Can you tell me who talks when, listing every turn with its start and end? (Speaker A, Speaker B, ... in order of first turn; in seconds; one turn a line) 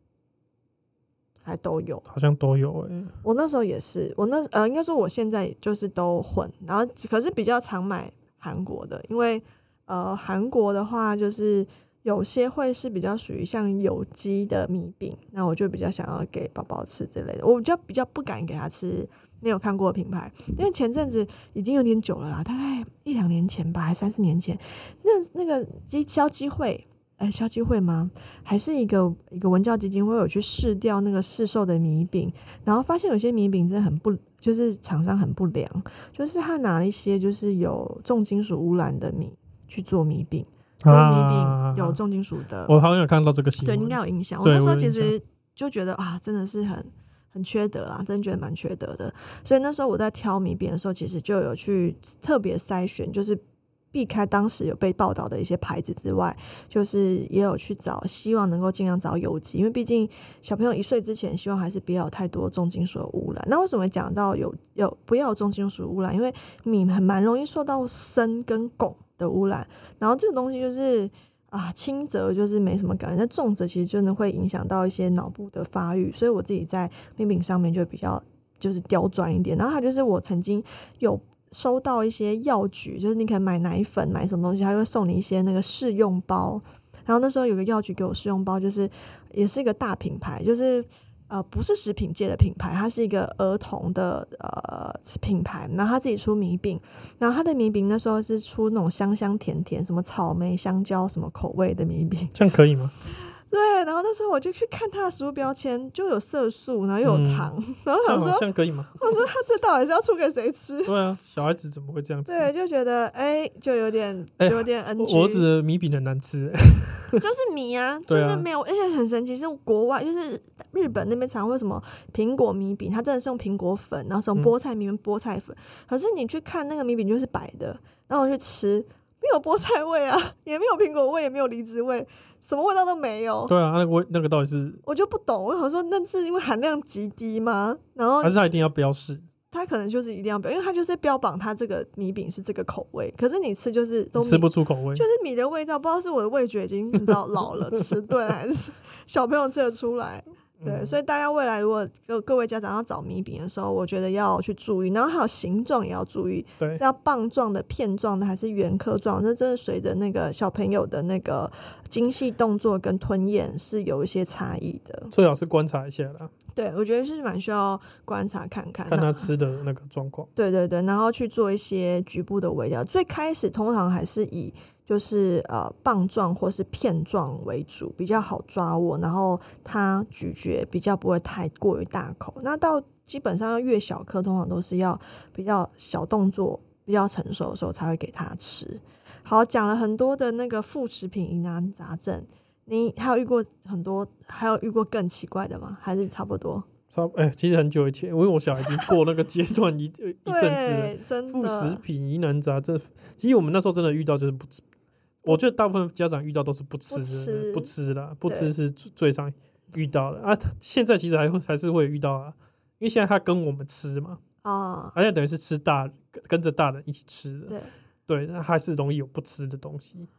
Speaker A: 1.4-2.0
Speaker B: 2.1-3.1
Speaker A: 3.2-42.7
Speaker B: 40.8-42.0
Speaker B: 42.7-45.1
Speaker A: 43.6-53.4
Speaker A: 53.9-102.3
Speaker B: 102.3-102.9
Speaker A: 103.5-108.4
Speaker B: 107.0-107.5
Speaker B: 108.0-109.2
Speaker A: 109.0-110.9
Speaker B: 110.8-112.5
Speaker A: 112.3-115.5
Speaker B: 114.4-117.2
Speaker A: 117.2-133.5
Speaker B: 118.1-118.5
Speaker B: 133.5-134.8
Speaker A: 134.8-138.7
Speaker B: 138.2-139.2
Speaker A: 139.5-165.1
Speaker B: 144.2-145.0
Speaker B: 150.6-151.0
Speaker B: 165.1-166.3
Speaker A: 166.6-169.3
Speaker B: 168.9-170.3
Speaker A: 170.3-196.7
Speaker B: 196.9-204.6
Speaker A: 200.2-201.8
Speaker B: 205.2-214.2
Speaker A: 206.9-207.7
Speaker A: 208.2-208.5
Speaker A: 214.4-214.9
Speaker B: 214.9-220.1